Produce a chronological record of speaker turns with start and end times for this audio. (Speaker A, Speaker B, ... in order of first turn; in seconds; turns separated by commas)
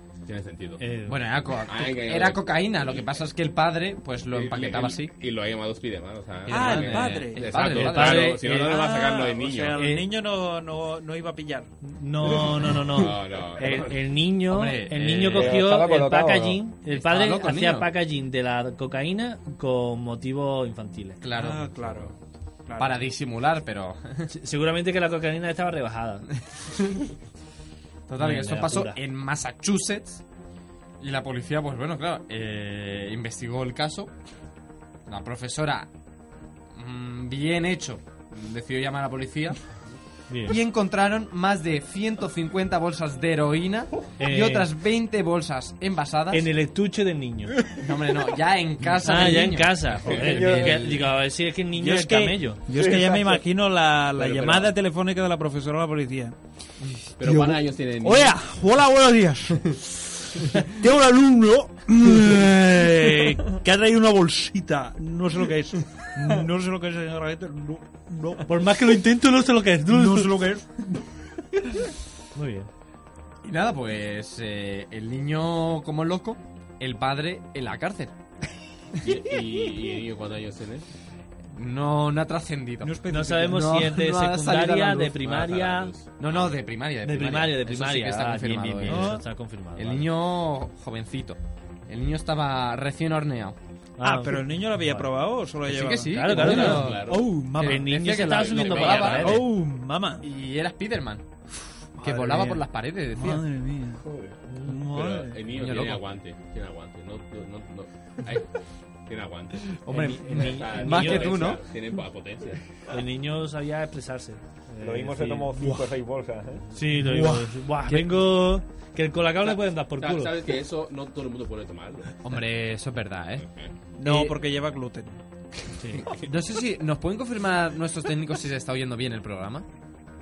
Speaker A: 0.2-0.8, Speaker B: 0.8-1.2, Speaker C: 1.1-5.1, Speaker A: 1.7-3.0, Speaker A: 4.3-9.8, Speaker D: 6.5-7.6, Speaker C: 6.5-8.4, Speaker B: 7.6-8.8, Speaker D: 8.4-11.7, Speaker B: 9.8-10.0, Speaker B: 11.8-21.2, Speaker A: 12.7-14.0, Speaker C: 14.5-15.6, Speaker E: 15.3-16.6, Speaker C: 16.9-17.9, Speaker C: 21.2-21.7, Speaker D: 21.3-23.1, Speaker C: 22.8-24.3, Speaker B: 24.3-26.3, Speaker C: 26.7-27.1, Speaker C: 28.1-30.2, Speaker B: 28.2-29.0, Speaker C: 31.0-34.1, Speaker C: 35.1-35.9, Speaker C: 36.8-39.6, Speaker B: 40.3-40.6, Speaker C: 40.5-46.5, Speaker B: 44.2-44.7, Speaker B: 46.3-47.6, Speaker C: 47.7-51.0, Speaker B: 49.0-52.6, Speaker E: 50.0-50.9, Speaker D: 51.8-56.4, Speaker E: 52.7-53.4, Speaker A: 54.2-54.7, Speaker A: 57.2-58.4, Speaker D: 57.2-68.6, Speaker B: 68.5-70.3, Speaker D: 69.9-71.0, Speaker B: 72.3-72.7, Speaker C: 73.4-78.1, Speaker A: 79.0-80.9, Speaker C: 81.5-85.2, Speaker D: 82.8-83.8, Speaker B: 83.1-85.9, Speaker A: 85.2-86.5, Speaker C: 86.2-89.2, Speaker B: 87.0-90.1, Speaker D: 88.8-89.2, Speaker C: 89.8-93.6, Speaker B: 94.0-95.1, Speaker D: 94.0-98.1, Speaker C: 95.7-99.5, Speaker B: 96.1-97.0, Speaker A: 96.3-97.4, Speaker B: 97.6-99.5, Speaker A: 98.2-99.4, Speaker D: 99.2-100.2, Speaker C: 100.2-101.2, Speaker D: 102.0-104.0, Speaker C: 102.0-103.4, Speaker E: 103.9-104.4, Speaker B: 104.5-104.9, Speaker D: 104.6-105.8, Speaker A: 104.9-108.5, Speaker C: 105.6-106.0, Speaker A: 109.1-112.7, Speaker C: 109.8-111.6, Speaker B: 109.9-111.6, Speaker B: 112.9-115.5, Speaker E: 114.8-116.6, Speaker D: 115.5-115.9, Speaker B: 116.8-120.3, Speaker D: 117.0-117.5, Speaker A: 119.4-122.1, Speaker C: 122.2-123.5, Speaker A: 123.5-123.7, Speaker D: 124.0-125.2, Speaker C: 124.0-124.3, Speaker C: 126.0-129.7